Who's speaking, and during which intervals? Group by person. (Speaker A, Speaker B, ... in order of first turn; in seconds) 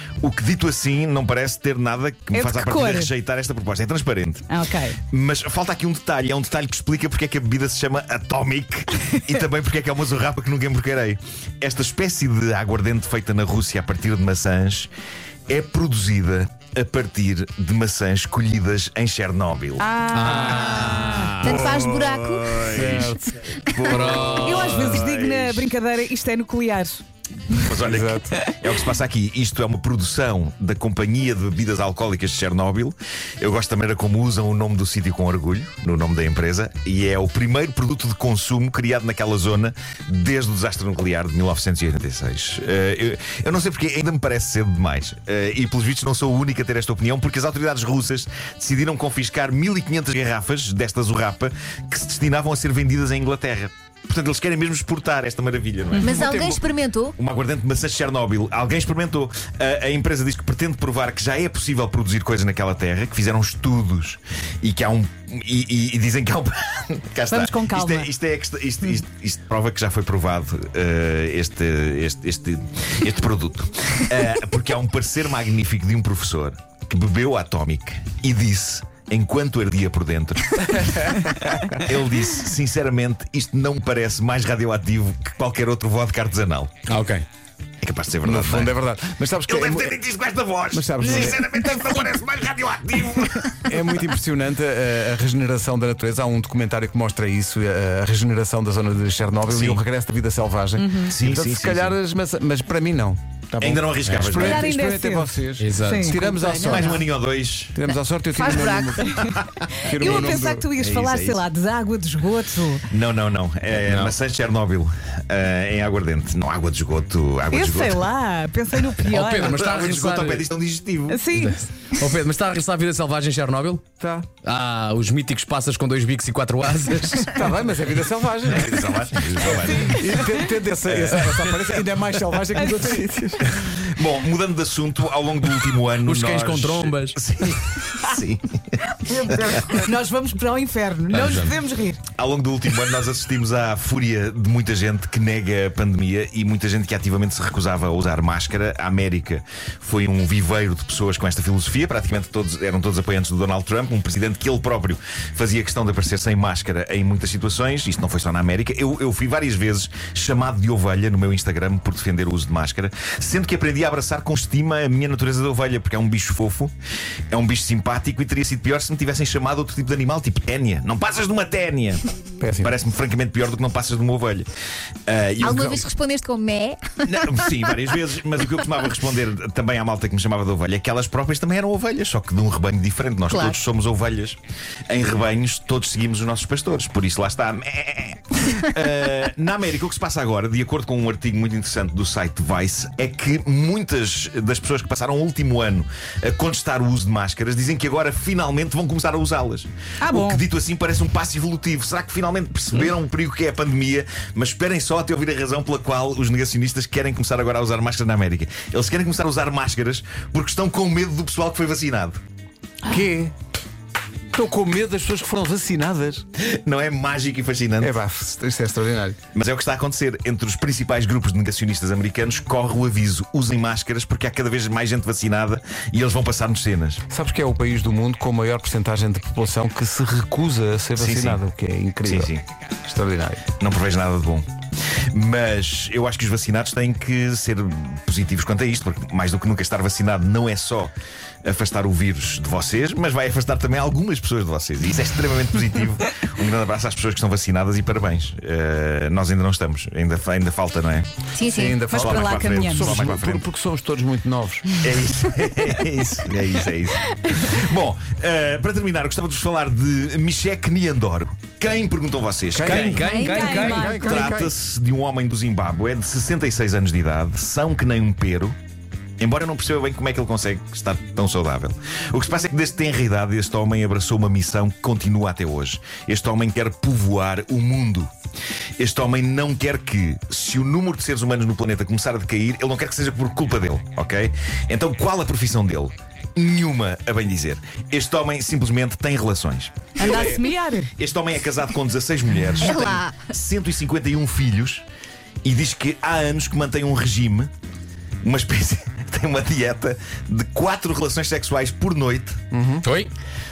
Speaker A: 0.2-4.5, 5.1-14.9, 15.5-19.9, 20.5-25.7, 27.6-80.8, 81.8-86.7, 87.8-88.8, 89.5-93.8, 99.5-99.8, 101.1-102.0, 103.6-104.7, 106.6-107.8, 109.1-111.4, 112.9-118.1, 119.5-121.2, 128.4-130.3, 130.8-131.8, 133.4-139.7, 142.1-166.7, 167.3-172.0, 172.6-174.5, 175.1-175.9, 177.0-184.4, 184.9-212.2, 216.4-217.9, 219.3-227.0, 230.9-231.4, 232.0-232.4, 233.6-234.5, 235.1-240.9, 241.4-251.1, 251.9-253.5, 254.7-268.6, 269.2-278.1, 278.8-294.8, 295.4-297.5, 298.2-302.4
Speaker B: 2.3-3.1, 4.5-5.0, 19.8-21.4, 24.3-27.7, 67.3-68.1, 91.0-91.4, 100.8-101.1, 104.3-106.2, 109.9-112.9, 117.5-119.6, 121.1-121.6, 129.4-130.4, 132.5-133.0, 139.0-142.0, 200.0-200.4, 251.9-253.0, 263.0-264.4, 290.0-290.9
Speaker C: 20.1-21.7, 23.9-25.0, 86.9-87.2, 104.1-104.3, 105.6-106.3, 113.8-114.1, 119.0-120.4, 121.3-123.8, 124.4-127.4, 136.0-137.2, 141.1-141.5, 262.6-263.9, 302.8-303.1
Speaker D: 21.4-22.6, 23.4-24.0, 56.0-57.1, 106.3-107.0, 108.3-109.2, 175.4-177.3, 183.3-183.6, 251.3-251.8, 263.0-263.5, 292.6-293.3
Speaker E: 22.6-23.4, 27.8-28.3, 88.2-90.0, 90.7-91.4, 93.6-107.0, 107.7-109.1, 109.8-110.7, 124.0-124.3, 127.2-128.8, 129.4-133.5, 172.4-172.7, 212.8-213.3, 214.3-216.2, 217.8-219.2, 227.1-232.3, 232.8-233.4, 251.4-254.8, 262.5-264.5, 302.5-302.9